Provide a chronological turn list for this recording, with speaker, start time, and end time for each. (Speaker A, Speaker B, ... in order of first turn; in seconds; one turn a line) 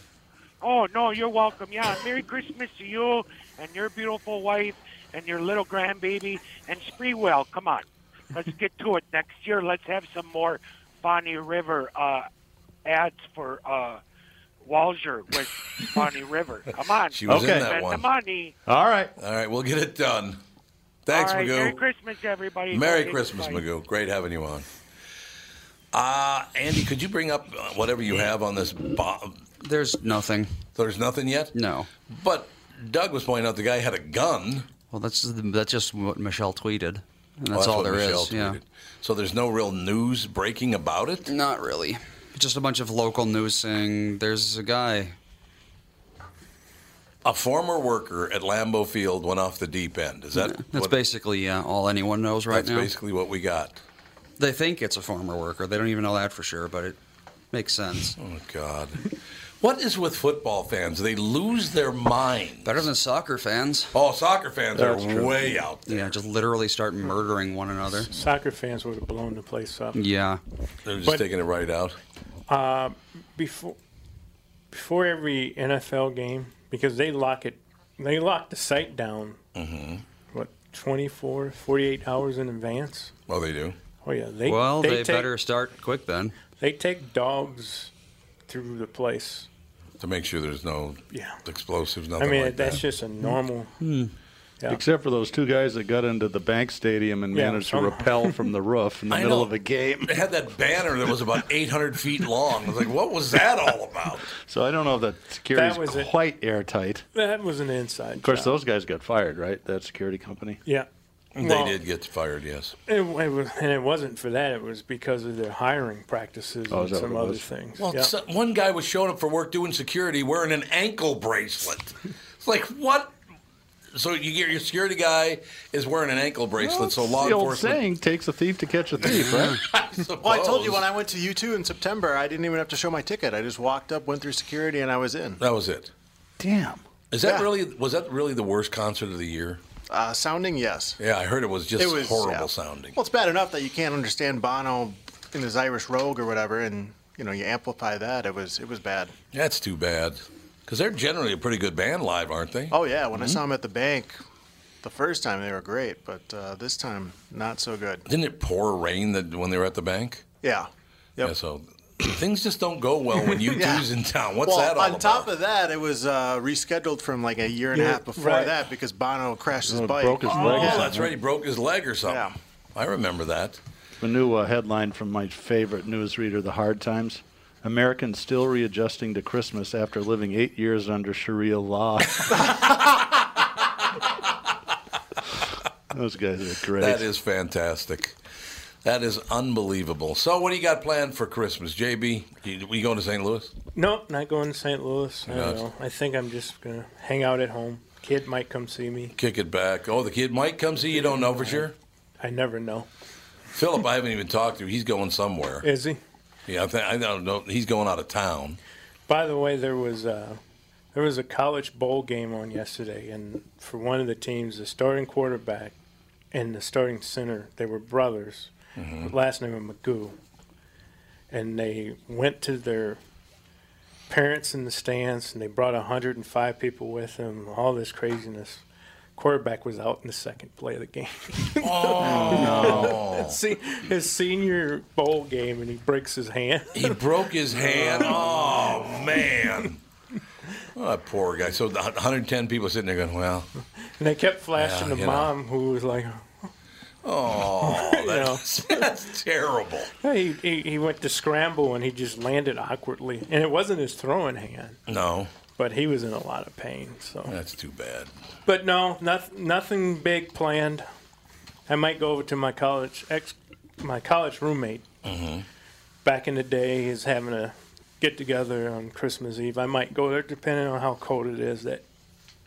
Speaker A: 0.6-12.3
Speaker A: 12.8-14.0
Speaker A: 14.6-18.6
Speaker B: 17.1-18.1
Speaker C: 17.3-17.7
Speaker C: 18.7-19.1
Speaker B: 19.2-20.4
Speaker B: 21.1-21.8
Speaker A: 21.1-23.6
Speaker B: 22.7-24.7
Speaker B: 25.9-29.4
Speaker D: 29.6-30.6
Speaker B: 30.8-31.5
Speaker D: 31.5-31.9
Speaker B: 32.1-34.7
Speaker D: 34.9-38.6
Speaker B: 37.5-41.3
Speaker D: 41.3-45.1
Speaker B: 47.2-51.0
Speaker D: 50.4-52.9
Speaker B: 52.5-53.8
Speaker D: 54.4-57.0
Speaker D: 57.5-58.2
Speaker B: 58.2-62.9
Speaker D: 62.6-63.9
Speaker B: 63.9-66.1
Speaker C: 64.8-65.5
Speaker D: 65.9-68.1
Speaker E: 68.1-70.0
Speaker D: 70.0-70.4
Speaker B: 70.8-72.0
Speaker E: 72.5-73.8
Speaker E: 74.7-79.4
Speaker B: 79.5-80.0
Speaker E: 80.3-83.1
Speaker B: 83.3-83.8
Speaker E: 84.0-85.3
Speaker D: 84.5-86.3
Speaker E: 86.6-87.9
Speaker E: 88.5-89.5
Speaker B: 90.0-92.9
Speaker E: 91.1-91.4
Speaker E: 92.2-93.7
Speaker D: 93.8-94.1
Speaker C: 94.7-100.2
Speaker E: 97.3-98.5
Speaker B: 99.1-99.5
Speaker B: 100.0-104.3
Speaker C: 104.5-107.0
Speaker E: 105.5-106.1
Speaker E: 107.1-108.5
Speaker C: 108.2-110.6
Speaker E: 110.7-111.8
Speaker B: 111.4-112.8
Speaker E: 112.9-118.1
Speaker C: 116.7-117.5
Speaker B: 117.8-123.2
Speaker B: 123.9-127.8
Speaker C: 126.6-129.6
Speaker B: 129.2-130.8
Speaker D: 129.3-129.5
Speaker F: 130.2-135.4
Speaker B: 135.4-135.9
Speaker C: 136.4-136.8
Speaker B: 137.1-139.6
Speaker F: 137.2-137.5
Speaker F: 139.9-141.0
Speaker B: 141.0-143.0
Speaker F: 141.8-149.1
Speaker B: 149.3-153.4
Speaker F: 152.7-154.1
Speaker F: 154.8-158.1
Speaker B: 158.1-160.2
Speaker F: 160.4-161.3
Speaker B: 161.2-165.3
Speaker F: 163.5-163.9
Speaker F: 164.4-170.9
Speaker E: 167.7-168.5
Speaker C: 169.6-171.1
Speaker B: 170.2-173.6
Speaker F: 172.1-172.3
Speaker C: 174.0-182.6
Speaker C: 185.9-187.1
Speaker B: 186.8-188.2
Speaker B: 188.8-193.5
Speaker E: 193.8-199.1
Speaker B: 195.3-195.6
Speaker B: 199.2-201.8
Speaker E: 201.0-201.7
Speaker E: 202.2-202.9
Speaker B: 203.5-205.7
Speaker E: 205.6-206.0
Speaker B: 206.5-208.6
Speaker E: 209.1-210.4
Speaker E: 210.9-215.8
Speaker E: 216.3-220.2
Speaker B: 218.8-219.1
Speaker E: 221.3-223.0
Speaker E: 224.1-228.6
Speaker E: 229.2-237.0
Speaker B: 231.6-233.4
Speaker C: 232.0-233.0
Speaker B: 236.7-239.8
Speaker E: 237.7-238.6
Speaker B: 240.8-243.5
Speaker E: 244.0-246.5
Speaker B: 244.6-245.3
Speaker B: 247.0-249.9
Speaker E: 247.6-248.9
Speaker E: 250.0-254.8
Speaker B: 254.9-255.3
Speaker E: 255.6-257.4
Speaker B: 257.3-258.1
Speaker E: 258.5-260.9
Speaker E: 261.7-264.9
Speaker B: 265.1-265.4
Speaker E: 266.0-271.8